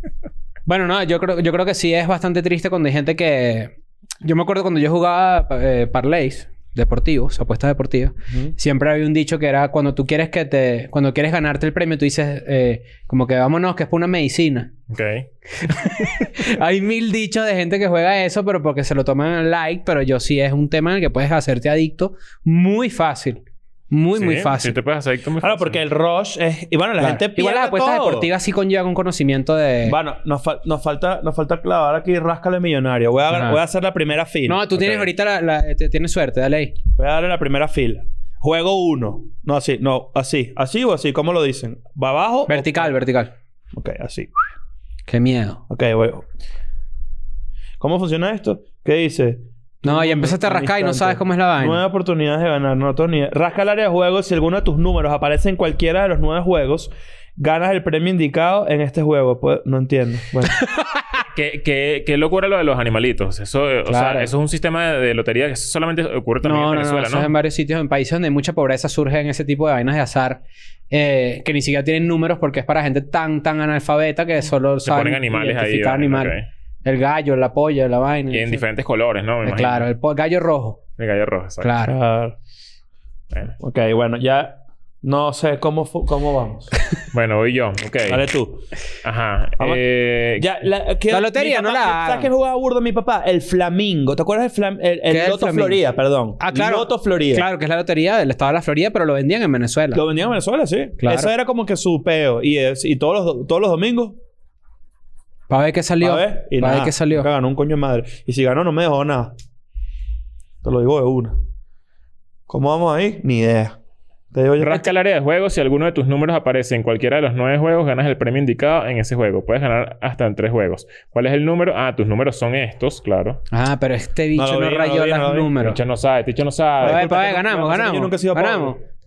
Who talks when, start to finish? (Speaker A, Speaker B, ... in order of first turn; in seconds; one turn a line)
Speaker A: 0.7-14.7
Speaker B: 8.3-8.5
Speaker C: 14.9-15.3
Speaker A: 15.6-24.7
Speaker C: 24.1-25.8
Speaker B: 25.4-28.3
Speaker A: 27.0-30.0
Speaker B: 29.9-34.7
Speaker A: 33.3-33.6
Speaker A: 34.4-36.8
Speaker C: 34.8-35.0
Speaker B: 37.0-42.9
Speaker A: 42.5-43.3
Speaker B: 43.7-44.3
Speaker A: 45.1-45.6
Speaker B: 45.7-46.2
Speaker B: 47.8-60.6
Speaker A: 49.8-51.8
Speaker A: 60.5-61.0
Speaker C: 61.2-67.3
Speaker A: 63.9-64.3
Speaker A: 66.4-78.6
Speaker C: 74.8-76.5
Speaker C: 78.3-79.9
Speaker A: 79.4-80.8
Speaker C: 81.0-81.7
Speaker A: 81.6-81.9
Speaker B: 81.8-82.3
Speaker B: 83.6-86.7
Speaker C: 87.1-88.2
Speaker B: 88.0-88.6
Speaker C: 89.0-90.5
Speaker B: 90.3-97.5
Speaker A: 91.1-92.3
Speaker A: 95.1-95.8
Speaker A: 96.4-100.0
Speaker B: 99.9-104.2
Speaker A: 101.0-101.3
Speaker A: 105.5-107.3
Speaker B: 106.0-109.3
Speaker B: 110.6-111.3
Speaker B: 112.5-113.8
Speaker B: 114.3-114.9
Speaker C: 114.6-123.4
Speaker A: 123.5-125.8
Speaker B: 124.3-125.5
Speaker C: 125.6-127.0
Speaker B: 126.8-128.8
Speaker A: 126.8-128.8